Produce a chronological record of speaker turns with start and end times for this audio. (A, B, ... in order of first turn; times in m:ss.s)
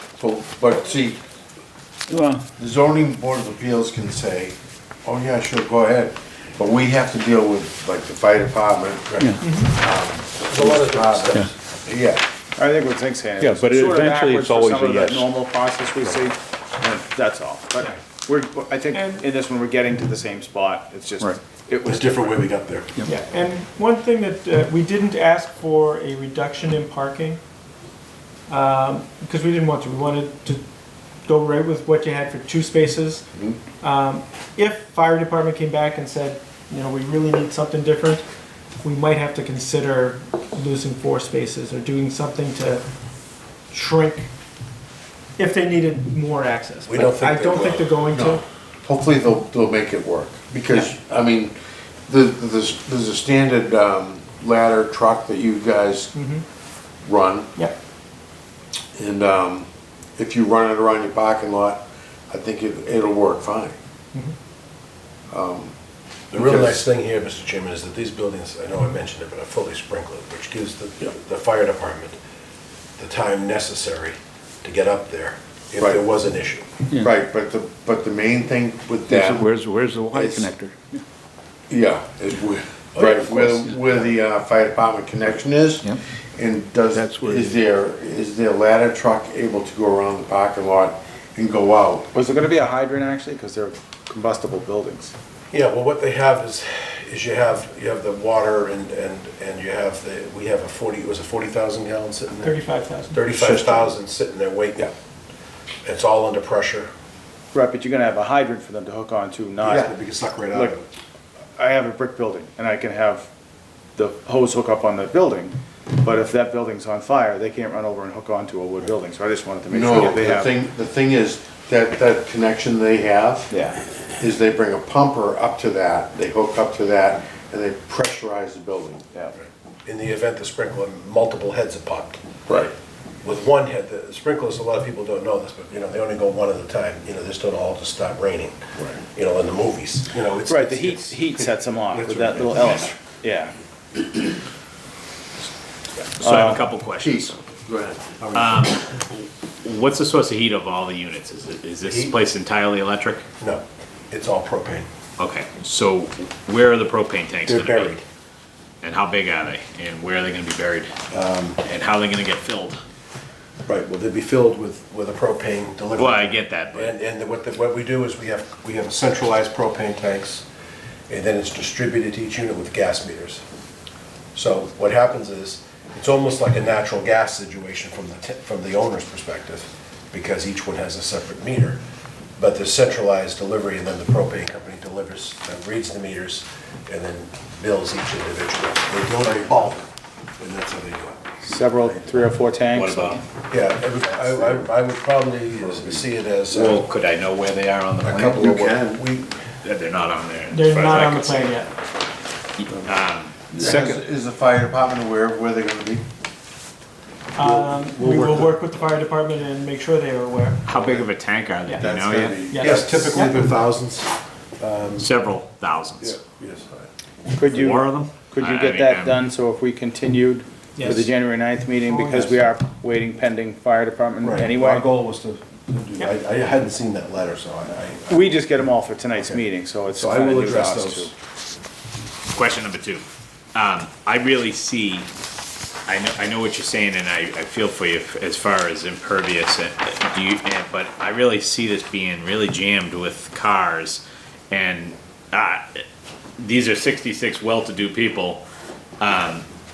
0:00.2-0:01.2 A
0:02.1-0:02.5 B
0:02.6-0:12.2 A
0:09.4-0:09.7 C
0:10.5-0:11.5 D
0:12.6-0:22.4 E
0:13.4-0:15.3 B
0:18.9-0:19.2 C
0:21.8-0:23.0 D
0:23.0-0:27.4 C
0:28.5-0:30.6 C
0:31.2-0:33.3 C
0:33.8-0:38.2 C
0:38.8-0:42.8 C
0:43.7-0:44.3 C
0:45.4-0:48.4 C
0:46.9-0:47.8 D
0:48.1-0:51.6 A
0:52.1-0:56.1 A
0:56.1-0:56.4 C
0:57.0-0:57.5 A
0:59.0-1:03.8 A
1:05.3-1:05.7 A
1:06.3-1:12.2 D
1:06.3-1:06.8 A
1:13.0-1:16.7 D
1:16.9-1:19.4 A
1:19.1-1:21.0 B
1:20.1-1:20.5 A
1:21.7-1:32.1 A
1:22.9-1:23.8 D
1:26.9-1:27.6 B
1:32.1-1:35.1 E
1:35.5-1:42.5 D
1:42.4-1:43.2 C
1:43.1-1:44.9 D
1:43.3-1:43.9 A
1:45.8-1:46.9 D
1:47.5-1:49.9 E
1:49.6-1:50.8 D
1:50.5-1:50.7 E
1:51.6-1:53.3 E
1:54.0-2:00.5 E
1:59.7-2:03.5 A
2:03.5-2:03.8 E
2:04.2-2:09.0 A
2:09.8-2:12.2 D
2:12.5-2:12.7 A
2:13.2-2:18.6 D
2:19.1-2:21.3 D
2:20.5-2:23.5 E
2:21.9-2:22.9 D
2:26.2-2:27.4 F
2:26.2-2:26.6 E
2:27.0-2:28.1 A
2:28.2-2:28.8 D
2:28.3-2:28.8 F
2:29.6-2:33.2 F
2:31.8-2:32.2 D
2:33.4-2:34.9 D
2:35.2-2:38.0 F
2:37.5-2:38.0 D
2:38.8-2:40.9 F
2:41.1-2:41.6 D
2:41.6-2:42.8 F
2:43.6-2:50.4 D
2:46.0-2:47.0 F
2:51.1-2:53.4 D
2:54.3-3:01.8 D
3:02.4-3:09.9 D
3:10.4-3:11.2 D
3:11.4-3:13.2 E
3:12.7-3:13.2 F
3:13.5-3:16.8 D
3:14.2-3:14.6 A
3:15.7-3:16.0 A
3:16.5-3:18.4 F
3:18.0-3:19.0 A
3:18.0-3:19.5 D
3:19.6-3:21.5 F
3:20.5-3:21.7 C
3:22.6-3:23.3 F
3:23.5-3:26.0 A
3:23.7-3:24.0 E
3:27.3-3:30.6 C
3:27.4-3:28.4 A
3:30.6-3:32.4 F
3:31.7-3:33.0 A
3:32.5-3:33.5 C
3:32.6-3:35.1 D
3:35.0-3:36.2 F
3:36.0-3:36.9 D
3:37.4-3:44.9 E
3:37.5-3:39.2 F
3:40.8-3:41.1 C
3:42.1-3:42.3 D
3:44.2-3:48.4 D
3:48.1-3:51.1 E
3:49.2-3:51.1 D
3:52.3-3:55.1 F
3:55.9-4:05.8 F
4:06.4-4:08.4 F
4:09.0-4:09.4 F